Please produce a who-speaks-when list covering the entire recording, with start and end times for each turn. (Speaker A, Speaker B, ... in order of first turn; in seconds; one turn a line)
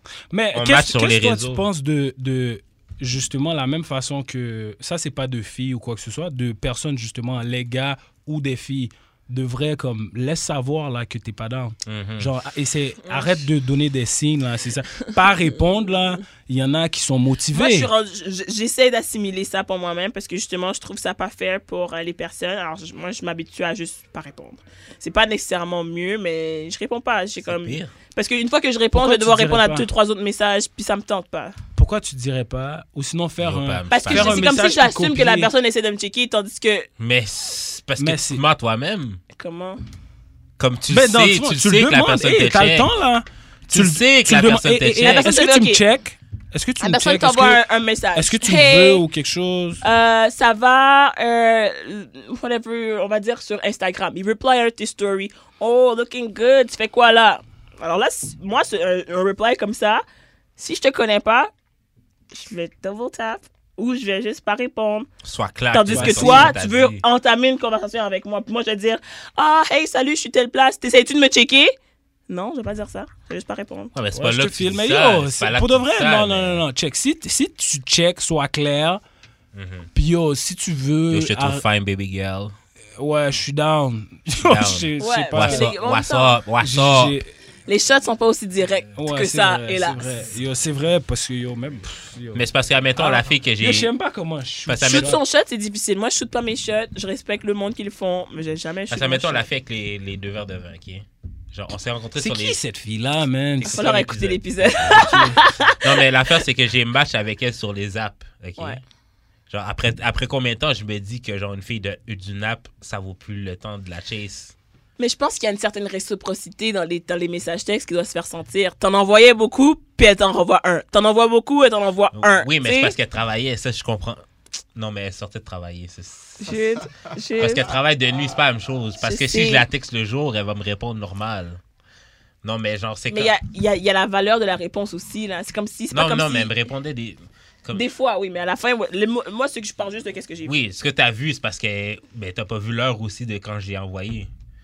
Speaker A: 0.3-17.9
Speaker B: 0.5-1.6
Speaker B: 11.8-12.3
Speaker C: 13.0-13.4
Speaker C: 17.5-31.6
Speaker B: 27.4-27.9
Speaker A: 28.9-29.9
Speaker A: 31.8-35.5
Speaker B: 33.4-34.5
Speaker C: 33.9-36.9
Speaker B: 37.0-39.2
Speaker A: 38.0-38.4
Speaker C: 39.4-39.8
Speaker B: 40.6-42.9
Speaker A: 40.9-47.6
Speaker B: 43.7-45.3
Speaker C: 45.0-45.8
Speaker C: 46.8-49.0
Speaker A: 48.1-49.8
Speaker C: 49.8-60.0
Speaker C: 60.6-61.5
Speaker C: 62.3-65.1
Speaker B: 65.2-67.0
Speaker C: 65.7-71.7
Speaker A: 65.9-66.5
Speaker C: 72.3-73.9
Speaker B: 73.9-76.6
Speaker A: 74.1-79.0
Speaker B: 79.5-79.9
Speaker A: 79.9-81.6
Speaker B: 81.1-82.5
Speaker A: 83.0-85.7
Speaker B: 84.4-87.2
Speaker C: 85.0-86.4
Speaker A: 86.6-87.3
Speaker C: 87.7-90.1
Speaker A: 89.0-92.5
Speaker B: 92.3-93.9
Speaker A: 93.0-95.2
Speaker B: 94.7-95.2
Speaker C: 94.8-99.5
Speaker B: 98.9-102.6
Speaker A: 102.2-104.1
Speaker B: 103.6-105.3
Speaker C: 103.7-105.8
Speaker A: 104.8-105.4
Speaker B: 105.8-108.8
Speaker B: 109.5-114.5
Speaker C: 115.0-122.9
Speaker B: 122.1-124.2
Speaker B: 124.7-126.6
Speaker C: 126.4-127.7
Speaker B: 127.4-131.6
Speaker C: 129.0-129.7
Speaker B: 132.4-133.3
Speaker C: 133.1-136.5
Speaker B: 135.9-137.8
Speaker C: 137.7-140.6
Speaker B: 140.4-144.3